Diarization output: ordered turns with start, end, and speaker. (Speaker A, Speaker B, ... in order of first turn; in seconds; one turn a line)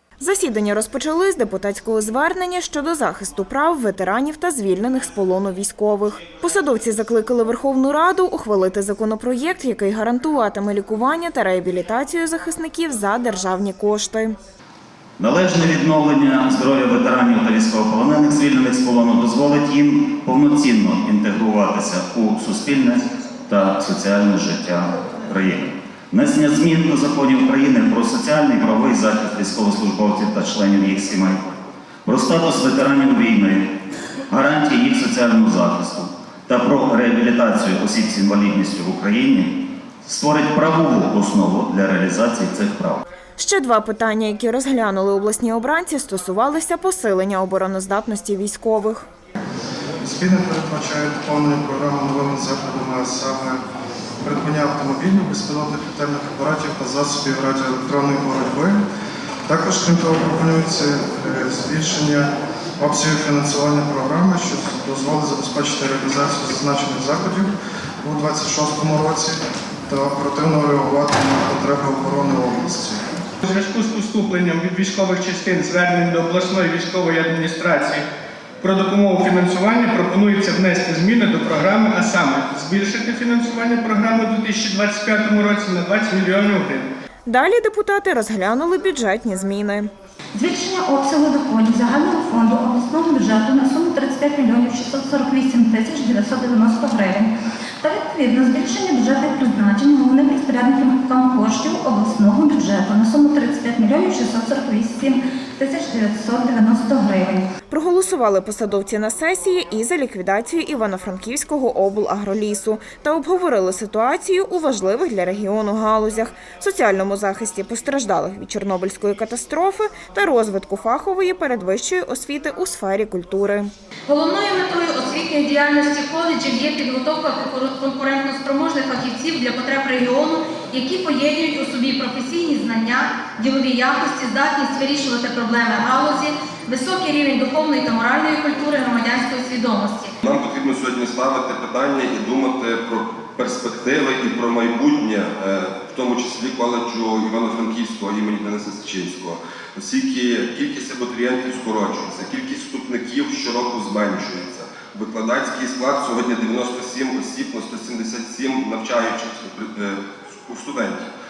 Speaker A: 0.2-14.4
Speaker B: 15.2-31.5
Speaker B: 32.0-33.7
Speaker B: 34.3-43.0
Speaker A: 43.4-49.1
Speaker C: 50.0-53.6
Speaker C: 54.2-58.8
Speaker C: 59.5-73.1
Speaker D: 73.4-78.0
Speaker D: 78.6-86.9
Speaker A: 87.3-89.9
Speaker E: 90.3-97.3
Speaker E: 97.8-107.5
Speaker A: 107.7-123.7
Speaker F: 124.1-140.1
Speaker G: 140.2-161.1